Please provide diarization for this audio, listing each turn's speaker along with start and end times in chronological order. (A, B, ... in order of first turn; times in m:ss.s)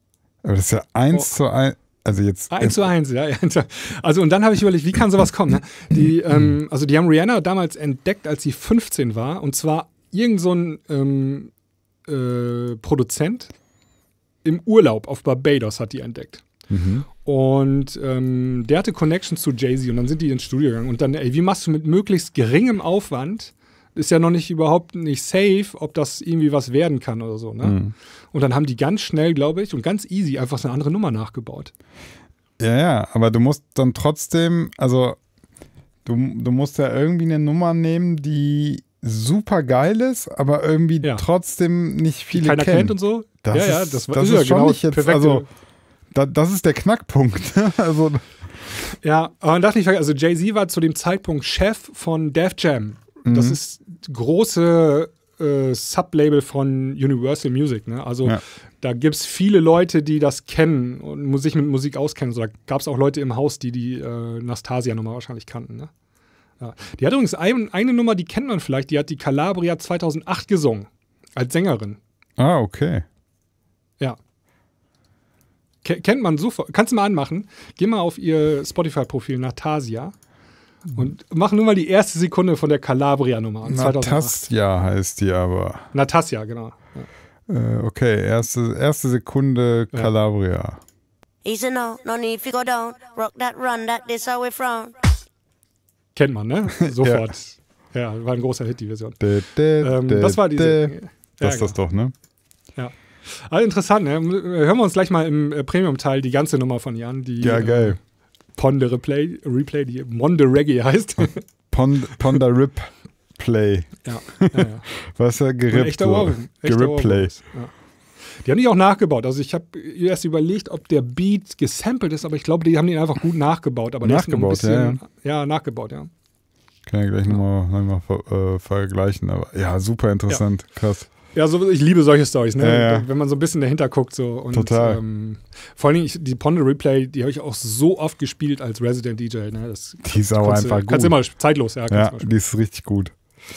0:00.4-0:02.9 A
0:02.5-0:11.5 B
0:12.1-0:13.5 B
0:14.4-0:16.4 B
0:16.7-0:17.0 A
0:17.2-0:27.8 B
0:27.6-0:27.9 A
0:28.3-0:31.7 B
0:32.6-0:35.2 A
0:36.0-0:45.4 A
0:42.3-0:45.5 B
0:46.1-0:48.3 A
0:49.0-1:05.9 B
0:53.2-0:53.6 A
1:06.6-1:12.0 B
1:12.4-1:13.0 A
1:15.8-1:20.1 B
1:20.9-1:24.4 B
1:23.7-1:25.8 A
1:25.9-1:27.1 B
1:27.5-1:30.8 A
1:31.4-1:35.0 C
1:36.2-1:39.2 B
1:36.9-1:37.3 A
1:39.2-1:42.1 A
1:39.8-1:41.8 B
1:42.8-1:48.0 B
1:47.4-1:48.0 A
1:48.6-1:51.4 B
1:51.7-1:57.4 A
1:54.0-1:54.9 B
1:55.7-1:57.7 B
1:58.4-2:06.1 B
2:04.0-2:05.0 A
2:06.9-2:11.1 A
2:11.3-2:22.3 B
2:12.6-2:13.1 A
2:14.5-2:15.0 A
2:20.0-2:21.2 A
2:21.9-2:23.1 A